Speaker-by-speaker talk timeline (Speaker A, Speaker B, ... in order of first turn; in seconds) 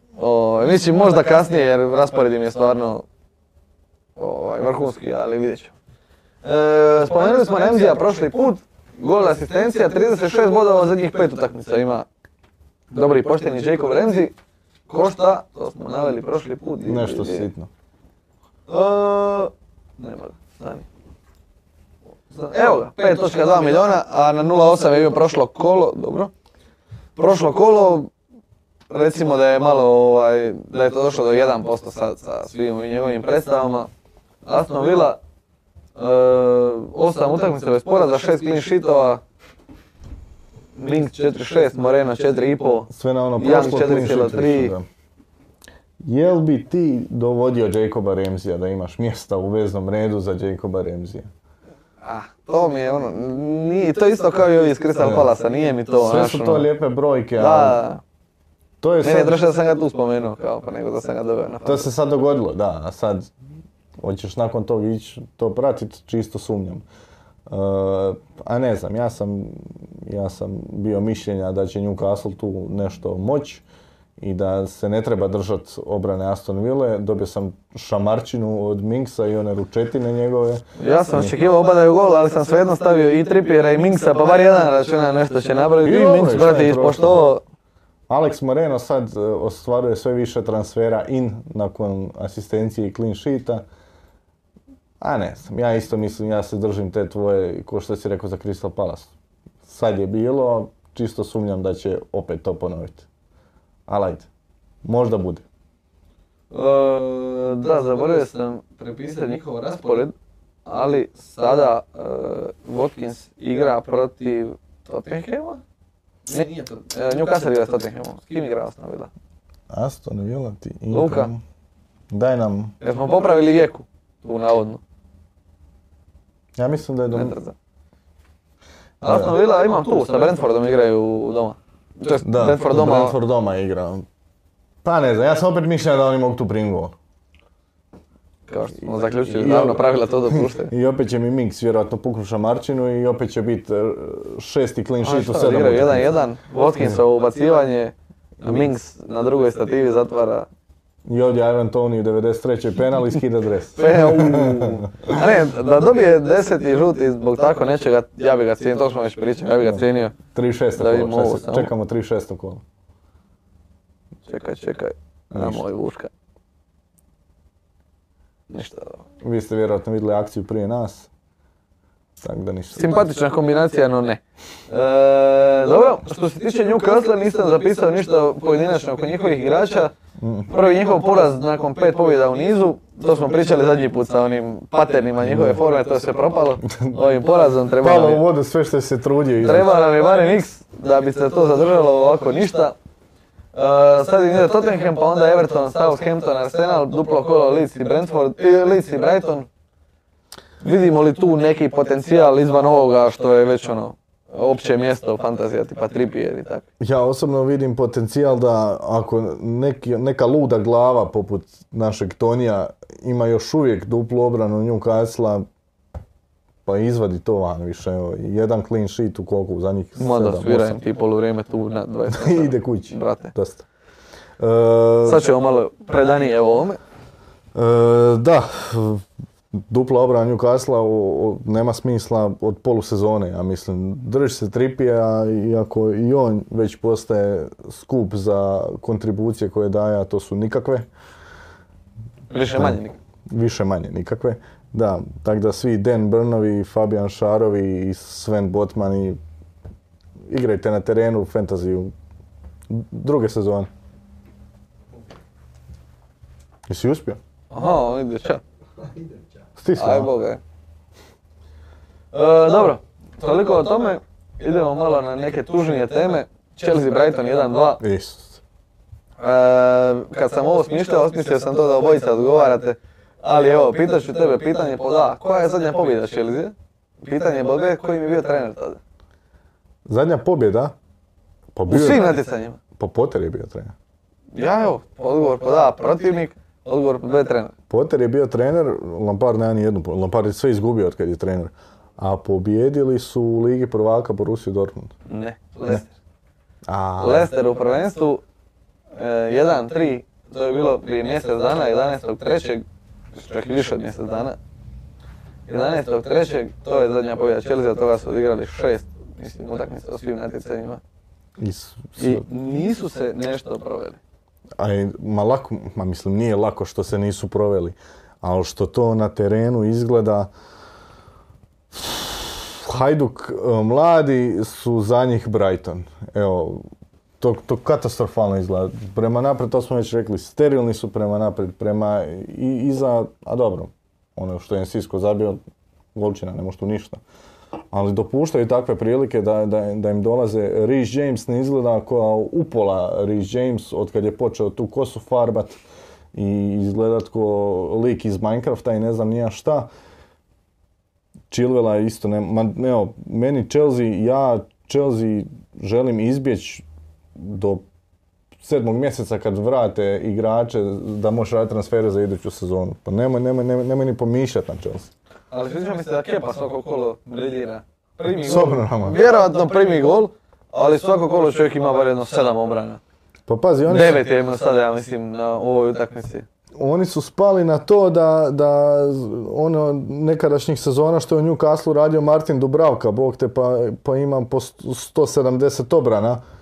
Speaker A: 0.2-3.0, 4.2-5.7, 6.4-12.1, 12.9-14.3, 14.9-17.5, 18.7-20.9, 22.3-26.3, 27.2-28.1, 28.9-33.9, 34.5-35.2, 36.0-39.2, 40.8-44.7, 52.0-56.7, 57.4-58.0, 59.0-61.9, 80.8-87.4, 106.5-110.1, 110.7-115.6, 116.3-119.1, 120.9-121.3, 122.8-124.8, 127.1-127.5, 129.0-133.2, 138.5-140.7, 145.0-150.5, 153.8-160.2, 160.8-161.7, 164.3-166.1, 168.5-169.0, 172.8-179.9, 180.5-188.2, 189.4-192.8, 193.5-199.5, 200.6-206.6, 220.0-223.3, 225.1-226.8, 242.3-243.0, 257.5-258.4, 259.8-260.4, 262.1-267.8, 269.2-278.8, 281.7-282.6, 284.3-287.5, 295.1-295.9, 297.0-298.2, 299.0-304.4, 305.5-310.8, 312.0-314.0, 365.3-372.8, 373.7-376.2
Speaker B: 16.9-17.7, 42.9-44.9, 46.0-51.3, 55.0-55.3, 56.0-57.8, 58.8-59.4, 61.6-63.3, 64.0-66.8, 67.5-73.6, 74.2-81.4, 85.8-87.3, 88.1-93.6, 95.0-99.1, 99.7-103.1, 103.9-104.3, 104.8-105.4, 119.7-121.4, 122.1-122.7, 126.6-127.4, 129.0-129.3, 132.2-134.1, 134.8-136.9, 139.2-146.1, 151.1-155.1, 159.6-162.6, 165.3-165.7, 169.2-171.1, 172.2-173.0, 180.2-180.5, 185.2-185.6, 186.7-187.0, 187.8-189.7, 206.8-215.5, 216.7-220.8, 222.1-223.7, 224.4-225.3, 227.6-229.1, 229.7-240.9, 243.3-249.2, 250.3-251.9, 252.7-253.7, 256.7-257.2, 259.6-260.1, 267.8-268.4, 279.9-280.7, 281.6-282.2, 282.8-283.7, 287.7-294.9, 296.7-297.3, 311.4-312.2, 314.6-320.3, 321.7-326.6, 327.2-335.4, 335.9-337.0, 337.7-345.6, 346.1-349.7, 351.3-356.6, 357.2-357.6, 358.4-364.9, 368.2-369.0, 373.3-374.1, 376.6-386.2